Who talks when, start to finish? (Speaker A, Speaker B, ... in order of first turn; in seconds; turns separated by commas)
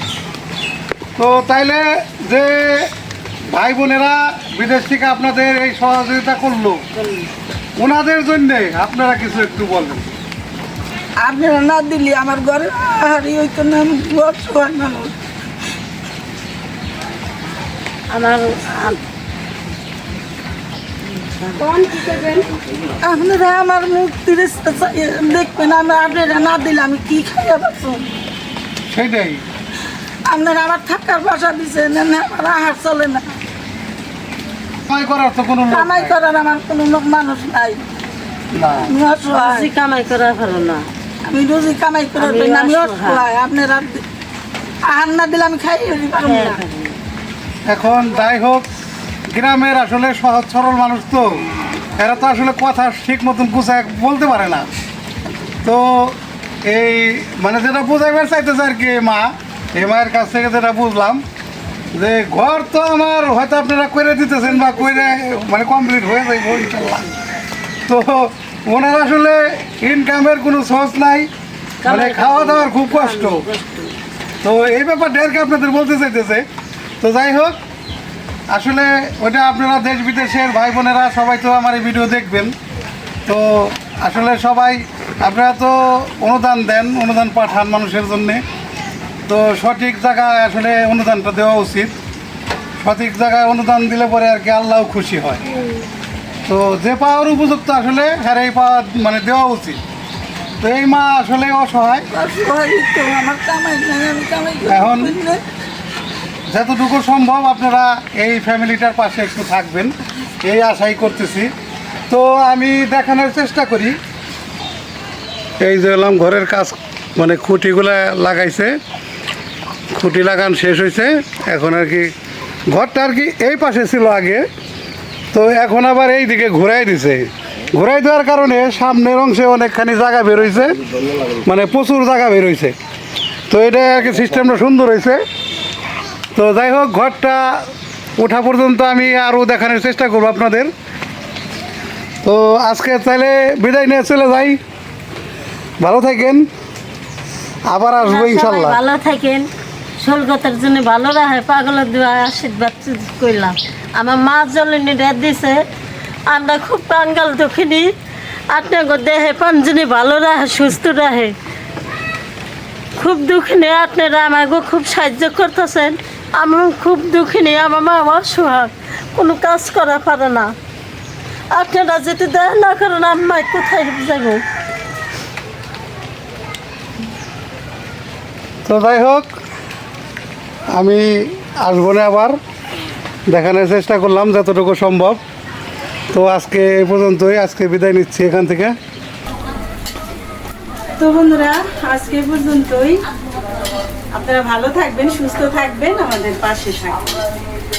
Speaker A: 1.1-2.9, Speaker A: 3.5-6.8, Speaker B: 6.9-7.2, Speaker A: 7.8-10.1, Speaker C: 11.2-15.1, Speaker D: 18.1-19.0, Speaker D: 21.3-22.2, Speaker B: 21.6-22.4, Speaker C: 23.0-28.1, Speaker A: 28.9-29.4, Speaker C: 30.2-33.2, Speaker A: 34.9-36.2, Speaker C: 35.7-37.8, Speaker A: 38.5-38.9, Speaker C: 38.8-39.6, Speaker D: 39.3-40.9, Speaker C: 41.2-44.0, Speaker D: 42.1-43.3, Speaker C: 44.8-46.6, Speaker D: 46.2-47.0, Speaker A: 47.6-48.7, Speaker A: 49.3-51.4, Speaker A: 52.0-54.7, Speaker A: 55.6-61.2, Speaker A: 62.0-67.1, Speaker A: 67.9-71.3, Speaker D: 71.8-74.0, Speaker A: 71.8-73.4, Speaker A: 74.4-76.5, Speaker A: 77.0-77.6, Speaker A: 78.5-82.5, Speaker A: 83.3-88.4, Speaker A: 89.3-91.9, Speaker A: 92.8-95.4, Speaker A: 96.5-99.8, Speaker A: 100.6-102.1, Speaker C: 102.1-105.4, Speaker A: 104.7-105.2, Speaker A: 106.5-109.9, Speaker A: 110.4-111.5, Speaker A: 112.1-114.0, Speaker A: 115.6-118.8, Speaker A: 120.0-122.1, Speaker A: 122.7-124.4, Speaker A: 125.3-130.8, Speaker A: 131.4-132.7, Speaker A: 133.5-135.2, Speaker A: 136.3-140.7, Speaker A: 142.2-144.6, Speaker A: 145.8-146.4, Speaker A: 147.7-148.8, Speaker D: 148.0-149.5, Speaker D: 150.0-155.6, Speaker D: 156.3-157.9, Speaker D: 158.5-161.3, Speaker D: 163.0-170.5, Speaker D: 171.5-174.4, Speaker A: 178.7-179.3, Speaker A: 180.7-182.4, Speaker A: 183.3-185.2, Speaker A: 186.1-188.7, Speaker B: 191.0-193.0, Speaker B: 194.1-197.1